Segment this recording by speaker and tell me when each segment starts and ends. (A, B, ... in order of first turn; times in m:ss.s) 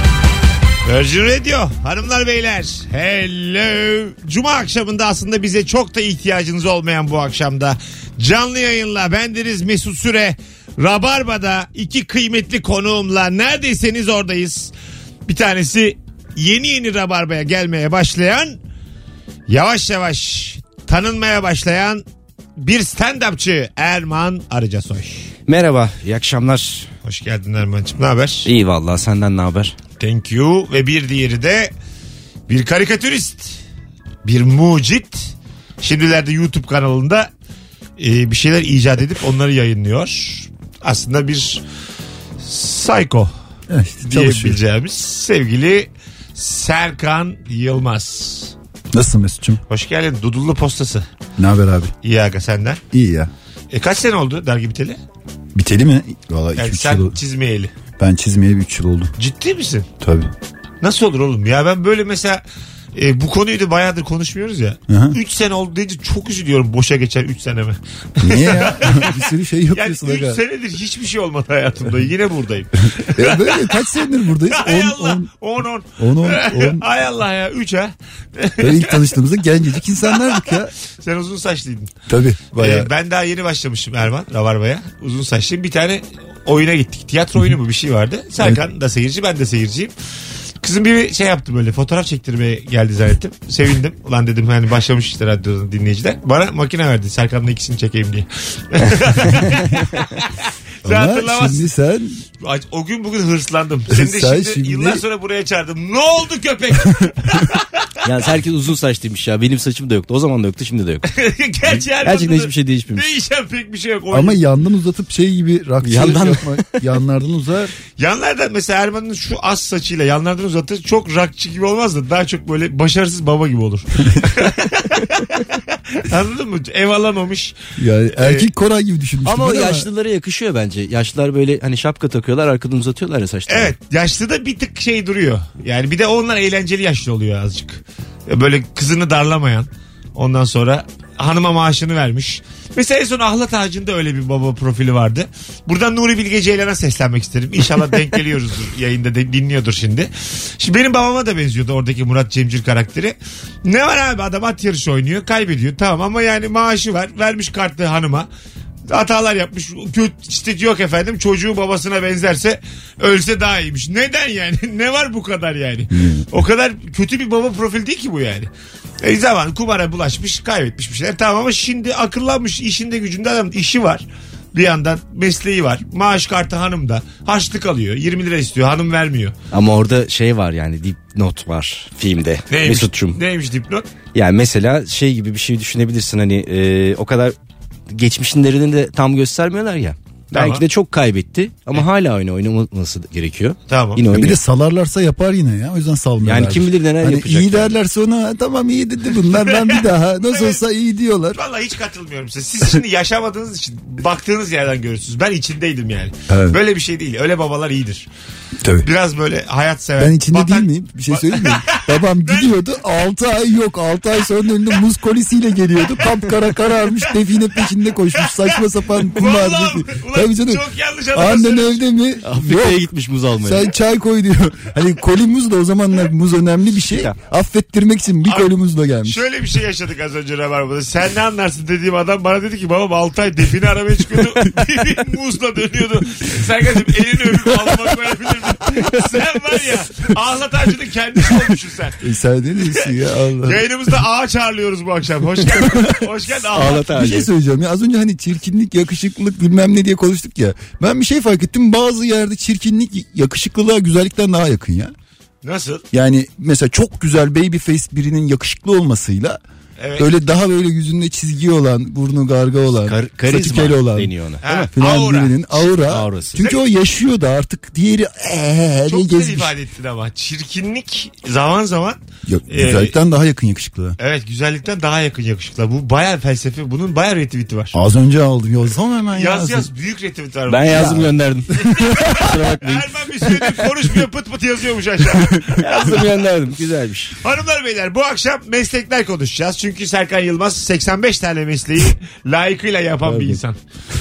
0:00.8-0:14.7 A
0:15.3-0:18.6 A
0:19.5-0:22.0 A
0:22.6-0:25.3 A
0:25.5-0:26.9 B
0:27.0-0:28.5 A
0:28.4-0:29.7 B
0:30.0-0:31.7 A
0:32.5-0:33.6 A
0:34.2-0:37.3 A
0:38.0-0:41.6 A
0:42.4-0:43.3 A
0:43.7-0:44.6 C
0:44.0-0:48.5 A
0:48.9-0:49.6 C
0:49.7-0:51.0 A
0:51.4-0:51.9 C
0:52.0-0:52.8 A
0:52.9-0:53.3 C
0:53.7-0:55.0 A
0:55.5-0:57.1 C
0:56.6-0:57.7 A
0:58.0-0:59.1 C
0:59.2-0:59.9 A
1:00.0-1:00.3 C
1:00.8-1:02.4 A
1:02.9-1:13.9 A
1:04.9-1:05.2 C
1:08.2-1:10.4 C
1:13.2-1:15.3 C
1:14.5-1:19.2 A
1:16.0-1:16.8 C
1:18.6-1:20.7 C
1:20.0-1:21.9 A
1:22.1-1:22.9 C
1:22.5-1:29.9 A
1:30.6-1:40.0 A
1:40.8-1:41.6 A
1:40.8-1:42.2 C
1:42.4-1:47.9 A
1:43.9-1:45.0 C
1:48.0-1:51.1 B
1:51.1-1:54.4 A
1:52.0-1:53.0 B
1:54.1-1:57.7 C
1:55.8-1:56.5 B
1:58.0-2:07.5 A
2:07.8-2:09.9 C
2:08.2-2:08.5 A
2:09.2-2:13.7 B
2:13.5-2:38.3 A
2:38.9-2:48.5 A
2:45.9-2:46.2 C
2:49.0-2:59.3 A
2:59.5-3:03.2 B
3:02.5-3:03.9 A
3:04.1-3:07.3 B
3:07.9-3:14.4 B
3:10.3-3:10.6 A
3:13.7-3:14.0 A
3:14.1-3:21.4 C
3:16.2-3:17.7 B
3:19.3-3:20.6 A
3:21.3-3:28.1 A
3:26.3-3:26.6 C
3:28.6-3:28.9 C
3:28.8-3:32.5 A
3:30.0-3:42.9 C
3:38.1-3:41.8 A
3:42.2-3:43.7 B
3:43.4-3:49.2 C
3:48.2-3:48.5 A
3:49.0-4:02.0 A
4:02.0-4:03.6 C
4:03.4-4:06.9 A
4:06.5-4:07.3 B
4:07.0-4:14.9 C
4:15.4-4:15.8 A
4:15.9-4:19.4 C
4:19.8-4:20.1 A
4:20.0-4:24.1 C
4:22.9-4:24.7 B
4:24.4-4:25.5 A
4:24.8-4:29.5 C
4:25.9-4:26.3 B
4:28.9-4:32.9 A
4:32.2-4:34.0 C
4:34.0-4:37.7 A
4:37.7-4:39.7 C
4:39.1-4:41.1 A
4:40.5-4:42.8 B
4:40.7-4:41.1 C
4:41.6-4:46.0 A
4:45.6-4:47.2 B
4:47.2-4:53.6 A
4:53.1-4:53.4 C